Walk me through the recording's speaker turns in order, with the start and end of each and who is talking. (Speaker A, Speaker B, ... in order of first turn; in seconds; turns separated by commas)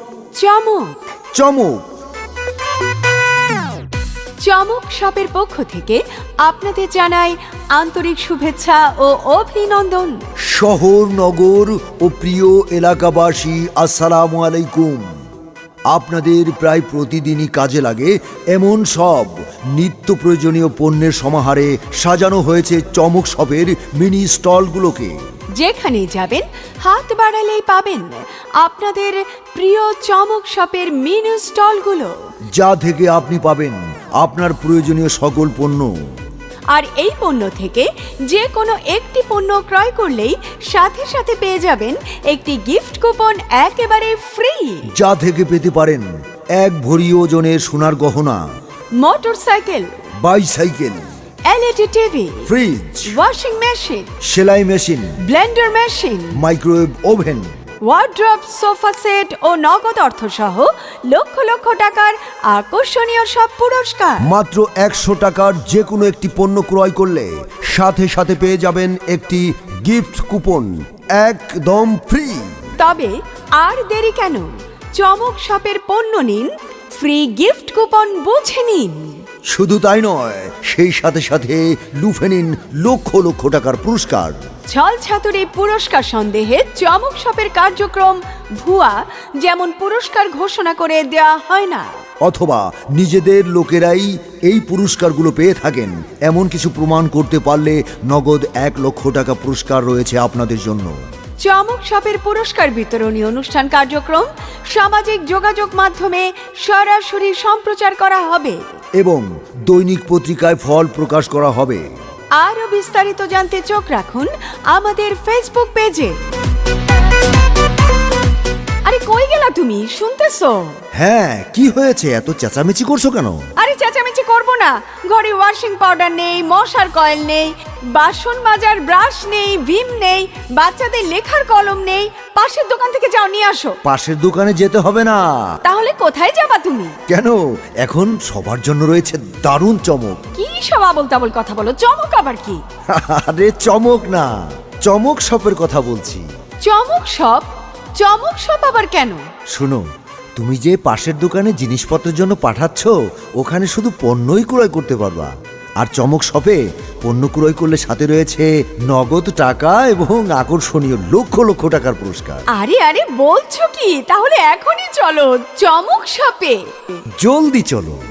Speaker A: 0.3-1.0, Speaker B: 1.3-1.8, Speaker A: 4.4-10.3, Speaker B: 10.4-15.1, Speaker B: 15.9-25.1, Speaker A: 25.5-32.2, Speaker B: 32.6-35.9, Speaker A: 36.7-44.9, Speaker B: 45.0-46.1, Speaker B: 46.6-48.4, Speaker A: 49.0-49.9, Speaker B: 50.2-51.0, Speaker A: 51.5-52.5, Speaker B: 52.5-53.1, Speaker A: 53.0-54.1, Speaker B: 54.2-55.1, Speaker A: 55.2-56.4, Speaker B: 56.3-57.5, Speaker A: 57.8-64.2, Speaker B: 64.2-72.6, Speaker A: 72.8-79.2, Speaker B: 79.5-84.4, Speaker A: 84.7-91.9, Speaker B: 92.3-100.9, Speaker A: 101.4-108.6, Speaker B: 109.0-111.8, Speaker A: 112.3-116.2, Speaker A: 118.8-120.8, Speaker B: 120.9-123.4, Speaker A: 123.6-133.8, Speaker B: 133.8-135.3, Speaker A: 135.6-137.0, Speaker B: 137.1-140.2, Speaker A: 140.3-142.6, Speaker B: 142.9-146.2, Speaker A: 146.6-147.5, Speaker A: 148.0-149.2, Speaker B: 149.5-149.8, Speaker B: 150.3-162.4, Speaker A: 162.5-166.9, Speaker B: 167.2-168.0